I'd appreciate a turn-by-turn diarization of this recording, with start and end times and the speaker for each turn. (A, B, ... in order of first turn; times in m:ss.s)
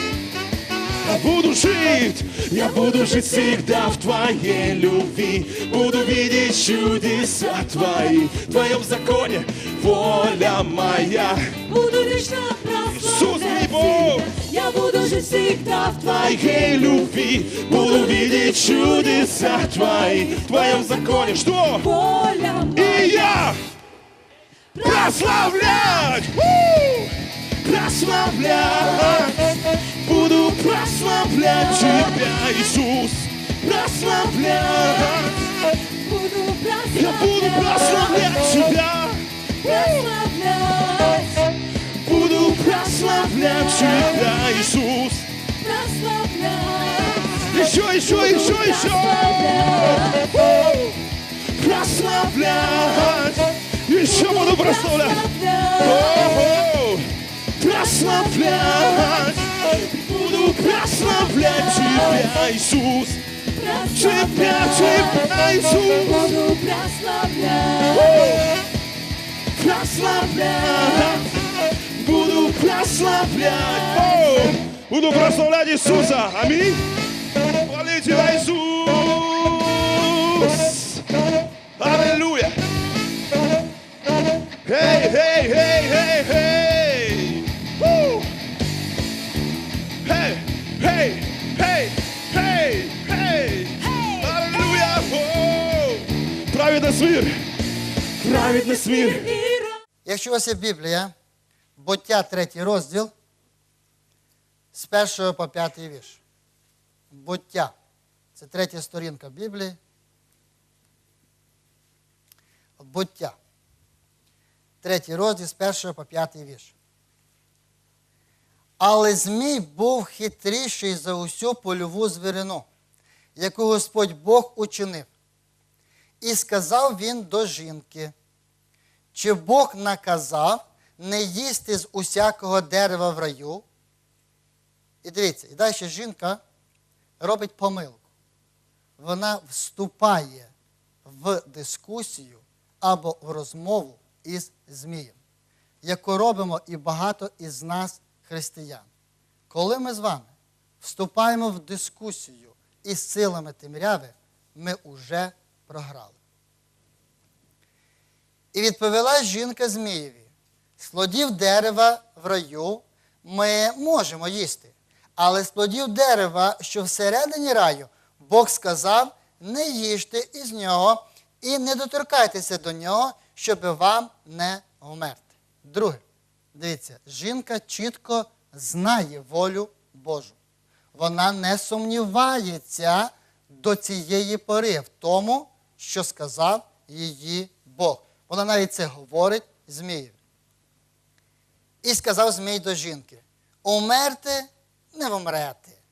0:01.0-0:11.6 A
0:02.8-0:03.7 B
0:09.8-0:23.4 B
0:12.9-0:14.4 A
0:16.0-0:21.9 A
0:22.7-0:23.6 A
0:24.7-0:26.2 B
0:24.8-0:35.5 A
0:34.5-0:35.3 B
0:35.9-0:38.4 B
0:36.9-0:40.0 A
0:39.6-0:41.5 B
0:42.0-0:45.3 A
0:42.1-0:44.4 B
0:45.6-0:47.5 B
0:47.3-1:06.4 A
0:48.0-0:50.4 B
0:52.2-0:53.3 B
0:54.0-0:56.5 B
0:58.5-0:59.2 B
1:00.2-1:02.3 B
1:03.6-1:08.4 B
1:07.9-1:08.5 A
1:09.5-1:16.9 A
1:10.5-1:11.1 B
1:13.4-1:14.0 B
1:17.5-1:21.0 A
1:21.8-1:22.6 A
1:24.6-1:28.3 A
1:30.0-1:37.4 A
1:38.2-1:39.6 A
1:40.0-1:41.1 C
1:41.8-1:43.1 C
1:44.7-1:46.2 C
1:47.1-1:47.7 C
1:48.3-1:49.8 C
1:52.8-1:53.3 C
1:54.8-1:56.7 C
1:58.8-2:02.7 C
2:03.4-2:05.1 C
2:06.2-2:08.1 C
2:09.1-2:13.6 C
2:15.0-2:16.4 C
2:17.2-2:18.0 C
2:19.0-2:20.5 C
2:21.0-2:25.2 C
2:25.8-2:28.9 C
2:29.5-2:36.2 C
2:38.5-2:40.3 C
2:40.8-2:56.0 C
2:56.5-3:00.4 C
3:00.9-3:10.2 C
3:11.8-3:15.8 C